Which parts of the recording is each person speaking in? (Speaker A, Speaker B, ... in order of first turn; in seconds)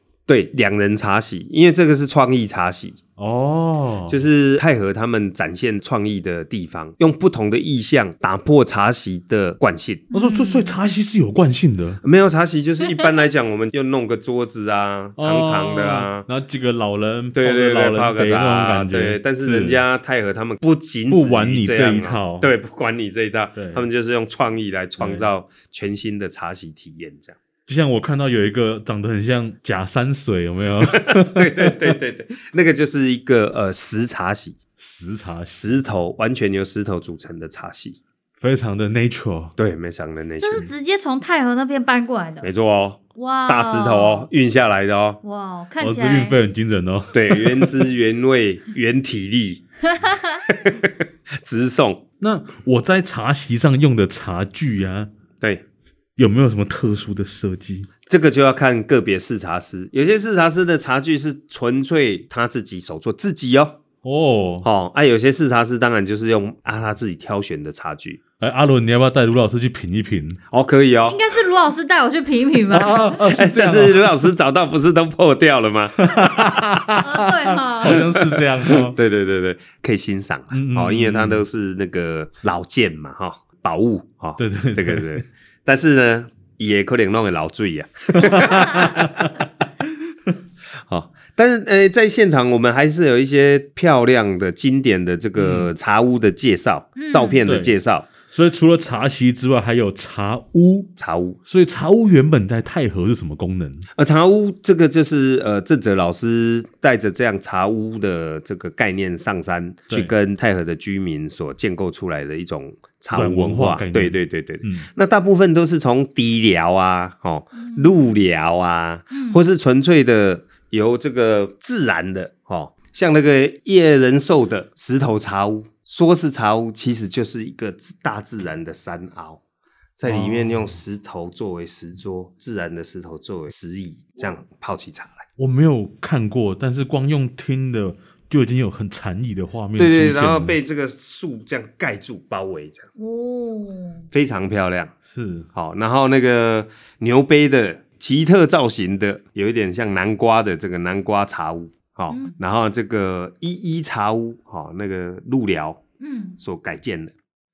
Speaker A: 0.3-3.0, 4.1-10.1, 12.0-16.3, 17.3-27.4, 30.9-34.6, 35.5-38.0, 39.6-40.7, 42.4-45.2, 47.1-49.6, 50.5-50.9, 51.4-52.0, 58.1-63.8, 64.6-68.2, 70.5-71.2, 73.3-76.7, 77.8-89.3, 90.9-98.1, 101.0-101.4, 104.0-129.4, 130.0-135.2, 139.8-142.9, 144.1-144.9, 145.5-155.8, 156.4-157.1
Speaker B: 3.2-4.2, 10.1-12.0, 15.2-19.8, 21.1-22.5, 23.6-23.9, 25.0-25.3, 27.7-31.9, 34.8-35.8, 38.4-39.5, 45.8-47.8, 52.2-55.1, 56.2-57.9, 64.0-64.7, 68.4-70.4, 72.7-74.3, 76.0-78.9, 80.5-81.4, 84.4-85.1, 88.3-89.3, 95.4-95.7, 97.4-100.9, 101.5-103.8, 113.1-114.9, 130.0-130.7, 135.4-140.6, 145.1-145.5
Speaker C: 10.1-10.8, 40.4-42.5, 43.1-44.3, 45.2-46.4, 71.0-73.2, 77.0-78.0, 97.0-97.4, 117.5-118.0, 119.1-119.4, 143.0-144.0, 152.1-152.3, 156.0-156.4